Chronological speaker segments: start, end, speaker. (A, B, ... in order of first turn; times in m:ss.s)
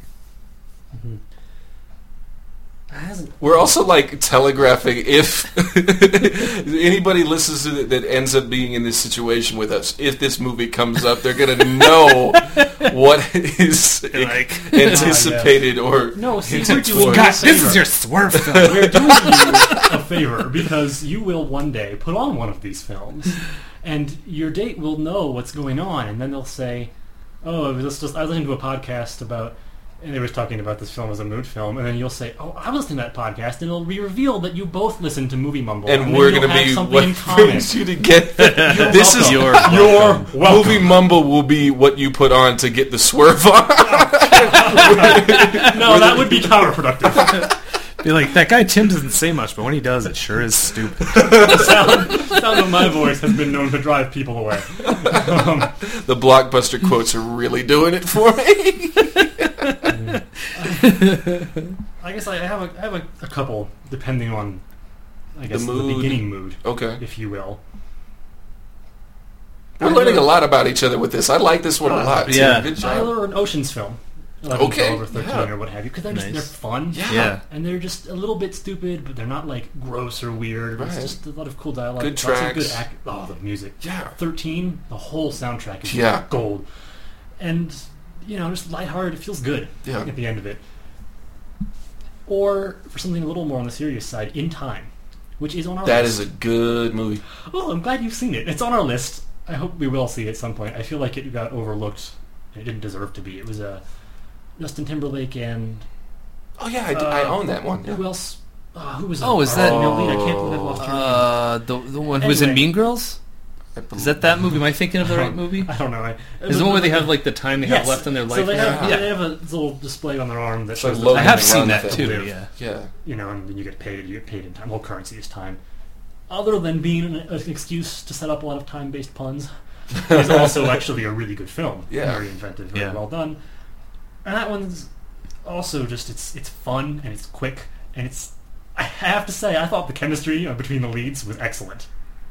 0:00.9-0:01.2 A
0:02.9-0:03.7 A
0:03.4-0:17.8 B
0:12.2-0:12.9 C
0:14.1-0:15.4 C
0:14.8-0:17.9 A
0:16.6-0:19.9 C
0:18.3-0:19.5 B
0:18.5-0:26.9 A
0:27.4-0:37.8 A
0:35.8-0:46.5 B
0:38.4-0:40.2 C
0:38.6-0:40.9 A
0:43.9-0:47.4 A
0:44.8-0:45.9 C
0:48.0-0:51.9 C
0:51.2-0:55.7 A
0:55.0-0:59.9 B
0:59.8-1:00.1 C
0:59.9-1:01.3 A
1:00.7-1:01.6 C
1:02.0-1:04.6 A
1:05.3-1:07.6 A
1:05.5-1:07.0 B
1:09.8-1:10.3 A
1:09.8-1:13.1 B
1:11.8-1:26.6 A
1:12.3-1:12.7 C
1:14.5-1:15.5 B
1:16.1-1:17.4 C
1:16.9-1:17.4 B
1:20.8-1:21.1 B
1:22.0-1:22.8 B
1:23.8-1:24.1 B
1:25.8-1:26.3 B
1:27.4-1:30.6 A
1:29.8-1:30.1 B
1:32.2-1:36.2 A
1:35.8-1:37.2 B
1:37.4-1:43.8 A
1:44.6-1:45.9 A
1:46.6-1:48.0 B
1:46.9-1:51.3 A
1:49.2-1:50.2 C
1:49.5-1:50.8 B
1:50.8-1:53.2 C
1:52.1-1:52.7 A
1:53.7-1:54.5 B
1:53.9-1:55.8 C
1:55.0-2:05.6 A
1:56.5-1:59.1 C
1:58.6-1:59.1 B
2:00.7-2:02.9 B
2:01.1-2:02.5 C
2:06.3-2:13.4 A
2:10.1-2:10.5 B
2:11.9-2:12.2 B
2:14.2-2:14.9 A
2:15.4-2:21.9 A